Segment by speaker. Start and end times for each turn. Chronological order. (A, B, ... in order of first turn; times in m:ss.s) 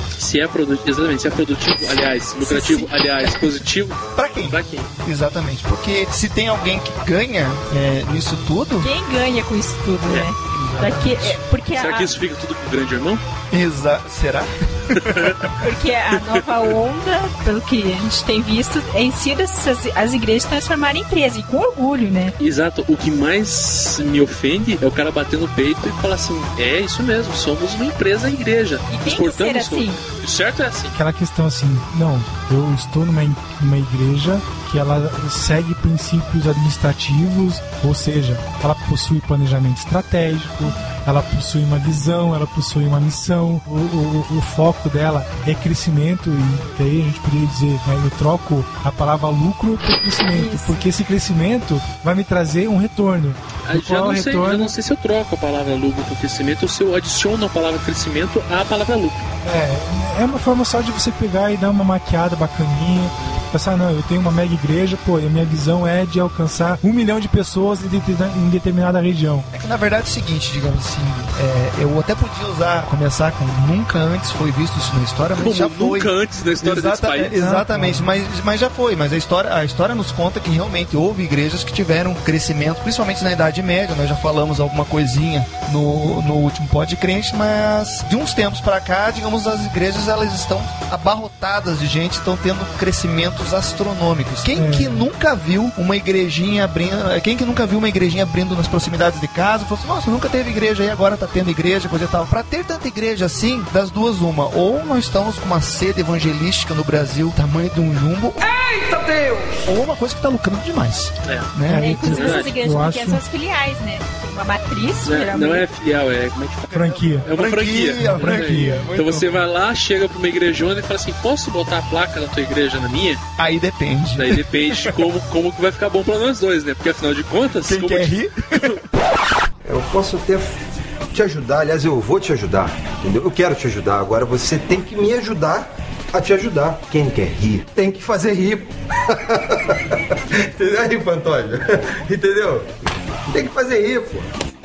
0:00.2-0:04.9 A
0:02.4-0:03.3 B
0:04.1-0:08.9 C
0:08.8-0:12.2 B
0:10.0-0:10.3 A
0:10.6-0:11.1 C
0:11.7-0:13.2 A
0:13.5-0:15.5 C
0:15.0-0:15.5 A
0:15.6-0:22.4 B
0:22.4-0:30.9 A
0:28.9-0:30.0 B
0:30.9-0:54.7 D
0:50.3-0:50.8 B
0:53.6-0:59.3 A
0:59.4-1:09.5 D
1:03.2-1:03.4 A
1:09.5-1:48.5 C
1:15.3-1:17.5 A
1:17.3-1:18.1 D
1:34.5-1:35.1 D
1:49.6-1:52.1 C
1:51.2-1:51.5 A
1:51.7-1:53.2 D
1:51.7-1:55.7 B
1:52.1-1:52.5 A
1:55.0-2:03.2 A
1:56.7-1:59.4 C
1:56.7-1:57.3 D
1:58.0-1:58.8 D
2:03.4-2:05.0 C
2:04.1-2:08.7 A
2:07.6-2:08.7 C
2:09.6-2:10.5 E
2:11.1-2:22.7 E
2:23.3-2:24.3 E